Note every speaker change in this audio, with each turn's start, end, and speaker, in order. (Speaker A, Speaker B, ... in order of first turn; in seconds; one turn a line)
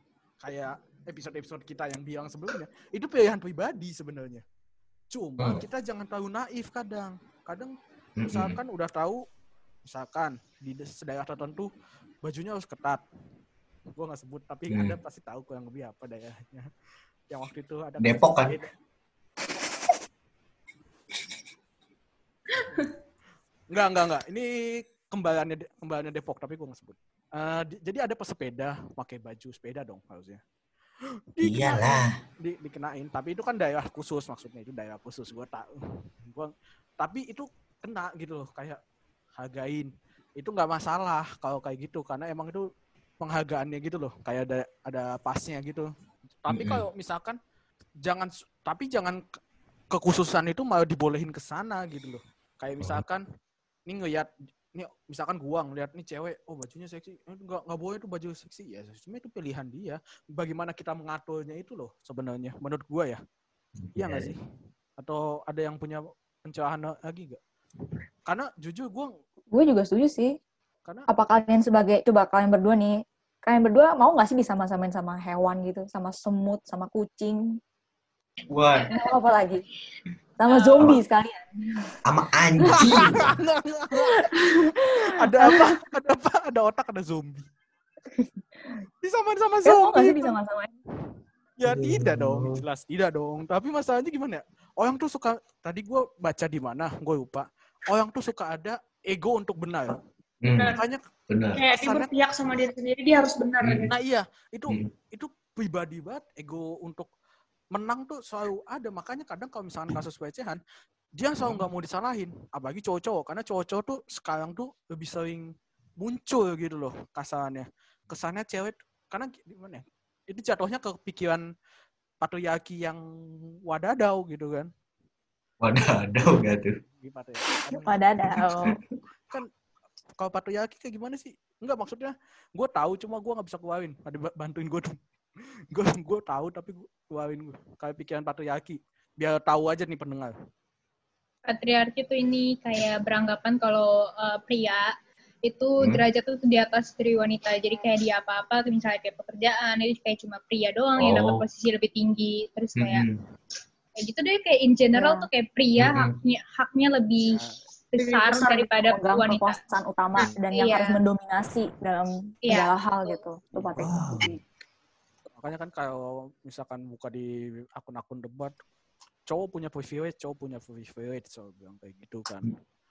Speaker A: 0.4-4.4
Speaker A: 5.1-7.7
Speaker B: 8.2-8.6
Speaker A: 8.3-9.2
Speaker A: 9.9-11.7
Speaker A: 12.2-13.0
Speaker A: 14.0-16.7
Speaker B: 14.7-15.0
Speaker A: 17.3-18.7
Speaker B: 18.0-18.6
Speaker C: 22.5-22.9
Speaker A: 23.7-30.4
Speaker A: 31.4-35.7
Speaker B: 31.4-32.1
Speaker A: 36.3-38.8
Speaker A: 39.4-42.6
Speaker A: 43.2-45.9
Speaker A: 46.4-47.4
Speaker B: 46.5-46.8
Speaker A: 48.0-49.2
Speaker A: 49.9-53.2
Speaker A: 53.9-63.2
Speaker B: 63.8-64.3
Speaker A: 64.0-64.4
Speaker A: 65.0-67.4
Speaker A: 68.3-69.2
Speaker D: 69.5-70.3
Speaker D: 71.1-77.6
Speaker B: 78.5-78.9
Speaker D: 78.9-79.6
Speaker D: 80.4-81.9
Speaker B: 82.0-83.3
Speaker A: 82.7-87.5
Speaker D: 84.3-85.7
Speaker D: 88.1-88.8
Speaker A: 89.0-90.4
Speaker D: 89.7-90.8
Speaker A: 91.6-100.0
Speaker B: 91.7-92.6
Speaker B: 100.4-100.8
Speaker C: 100.5-100.8
Speaker A: 100.6-101.0
Speaker B: 101.3-101.6
Speaker C: 101.6-103.9
Speaker A: 101.7-102.1
Speaker B: 103.6-103.9
Speaker A: 103.9-107.1
Speaker A: 107.7-110.6
Speaker A: 111.2-115.5
Speaker A: 116.0-121.5
Speaker A: 122.2-123.0
Speaker A: 123.7-124.7
Speaker B: 125.6-126.8
Speaker A: 126.9-128.0
Speaker D: 127.8-128.8
Speaker B: 128.5-128.8
Speaker A: 130.2-135.0
Speaker A: 135.7-140.3
Speaker E: 141.5-144.8
Speaker E: 145.5-153.1
Speaker B: 151.0-151.4
Speaker B: 152.8-153.2
Speaker E: 154.0-157.4
Speaker D: 154.9-155.3
Speaker B: 155.8-156.1
Speaker A: 157.2-157.6
Speaker E: 157.9-159.6
Speaker C: 158.0-158.7
Speaker D: 158.8-164.4
Speaker E: 160.5-161.0
Speaker E: 162.5-163.2
Speaker B: 163.7-164.3
Speaker A: 165.4-168.6
Speaker A: 169.3-172.5